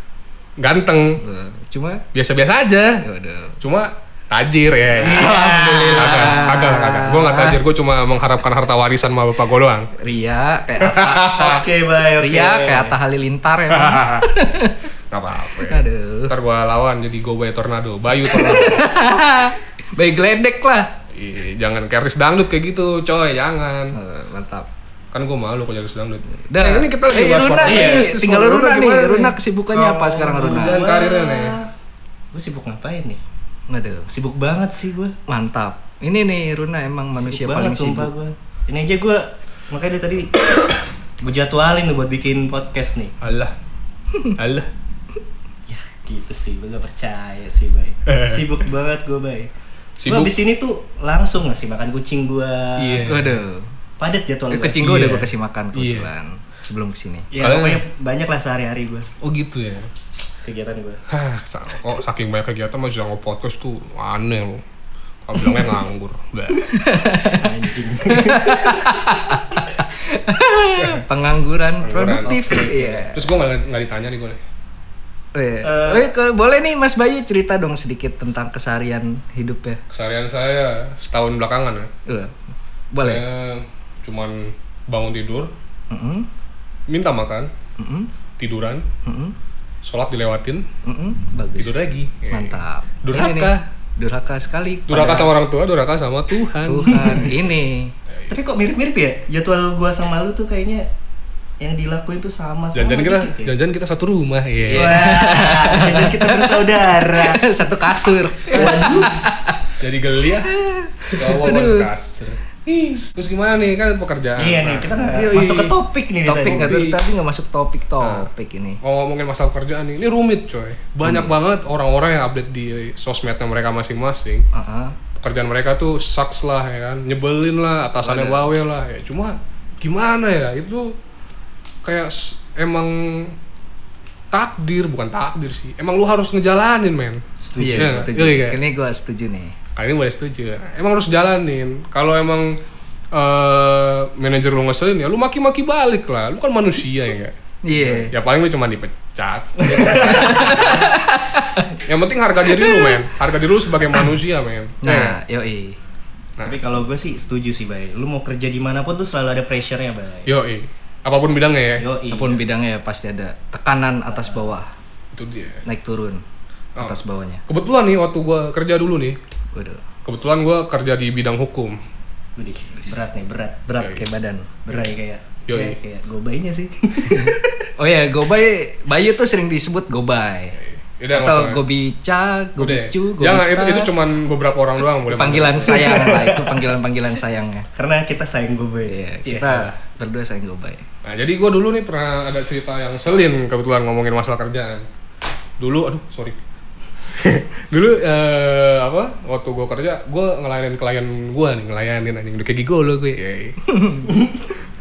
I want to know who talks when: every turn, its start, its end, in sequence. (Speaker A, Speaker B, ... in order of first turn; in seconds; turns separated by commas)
Speaker A: 0.6-1.2, Speaker B: 1.2-2.0, Speaker A: 2.1-3.0, Speaker B: 3.0-3.6, Speaker A: 3.6-5.3, Speaker C: 5.0-6.5, Speaker B: 5.0-7.6, Speaker A: 5.9-9.9, Speaker B: 10.0-11.4, Speaker A: 10.8-11.7, Speaker C: 11.3-12.9, Speaker B: 12.2-14.8, Speaker A: 13.7-14.3, Speaker A: 15.1-18.9, Speaker B: 15.7-16.3, Speaker B: 18.3-20.9, Speaker A: 21.1-24.0, Speaker B: 23.9-24.7, Speaker A: 25.1-29.4, Speaker B: 26.5-30.8, Speaker C: 27.6-28.1, Speaker C: 29.7-31.7, Speaker A: 30.4-31.6, Speaker C: 32.3-33.2, Speaker B: 33.7-34.1, Speaker C: 34.1-35.1, Speaker B: 35.3-38.1, Speaker C: 37.1-40.7, Speaker C: 41.2-43.1, Speaker A: 43.2-43.5, Speaker A: 44.4-44.7, Speaker C: 45.7-49.5, Speaker A: 48.1-48.5, Speaker A: 50.0-50.4, Speaker C: 50.0-53.1, Speaker A: 52.8-53.4, Speaker B: 53.1-53.7, Speaker C: 54.0-54.9, Speaker B: 54.5-57.3, Speaker A: 54.8-56.1, Speaker C: 57.3-59.1, Speaker A: 57.4-57.8, Speaker A: 59.2-59.9, Speaker C: 60.4-61.0, Speaker A: 61.1-64.6, Speaker A: 65.2-66.7, Speaker B: 66.7-67.4, Speaker C: 67.3-69.0, Speaker B: 68.1-73.2, Speaker A: 71.8-74.4, Speaker C: 72.3-73.0, Speaker B: 75.3-79.8, Speaker C: 75.6-76.1, Speaker A: 79.9-81.9, Speaker B: 82.1-82.3, Speaker B: 82.9-83.2, Speaker A: 83.0-85.5, Speaker B: 85.9-86.3, Speaker A: 86.9-87.5, Speaker B: 87.8-88.1, Speaker A: 88.4-88.8, Speaker B: 89.0-89.3, Speaker A: 89.8-90.7, Speaker B: 90.8-91.7, Speaker A: 91.6-93.6, Speaker B: 92.3-95.3, Speaker A: 94.9-97.3, Speaker B: 96.7-97.9, Speaker C: 98.3-100.9, Speaker C: 101.6-103.5, Speaker A: 102.7-105.0, Speaker C: 104.7-107.4, Speaker B: 104.7-109.6, Speaker C: 108.5-109.2, Speaker A: 108.5-109.2, Speaker A: 109.8-110.5, Speaker B: 110.5-111.9, Speaker A: 111.1-115.8, Speaker C: 114.4-116.9, Speaker B: 116.2-118.8, Speaker A: 116.4-117.0, Speaker A: 118.0-118.3, Speaker A: 118.8-124.5, Speaker B: 121.0-121.3, Speaker B: 124.5-125.0, Speaker A: 125.2-130.9, Speaker B: 128.0-128.5, Speaker A: 131.8-133.3, Speaker A: 134.3-137.2, Speaker C: 137.4-138.1, Speaker B: 137.6-139.6, Speaker A: 137.7-138.6, Speaker A: 139.8-142.6, Speaker A: 143.1-147.3, Speaker B: 147.7-148.1, Speaker A: 148.0-151.0, Speaker C: 149.6-150.3, Speaker B: 150.0-151.7, Speaker A: 151.9-155.2, Speaker B: 152.6-152.9, Speaker B: 154.8-155.8, Speaker C: 156.4-160.3, Speaker A: 160.3-161.9, Speaker C: 161.8-162.4, Speaker B: 162.1-164.7, Speaker A: 165.1-165.6, Speaker B: 165.7-166.2, Speaker B: 166.8-167.4, Speaker A: 167.5-169.2, Speaker B: 169.5-169.8, Speaker A: 170.1-171.8, Speaker C: 172.4-173.7, Speaker B: 173.7-174.6, Speaker A: 173.8-174.1, Speaker C: 174.7-177.7, Speaker A: 175.5-175.8, Speaker B: 177.1-180.6, Speaker A: 180.6-181.6, Speaker B: 181.1-183.9, Speaker A: 182.6-186.1, Speaker B: 185.1-187.7, Speaker C: 185.7-186.6, Speaker C: 187.8-189.7, Speaker B: 188.9-190.8, Speaker A: 191.0-194.8, Speaker A: 195.6-196.4, Speaker A: 197.2-203.8, Speaker B: 203.7-204.1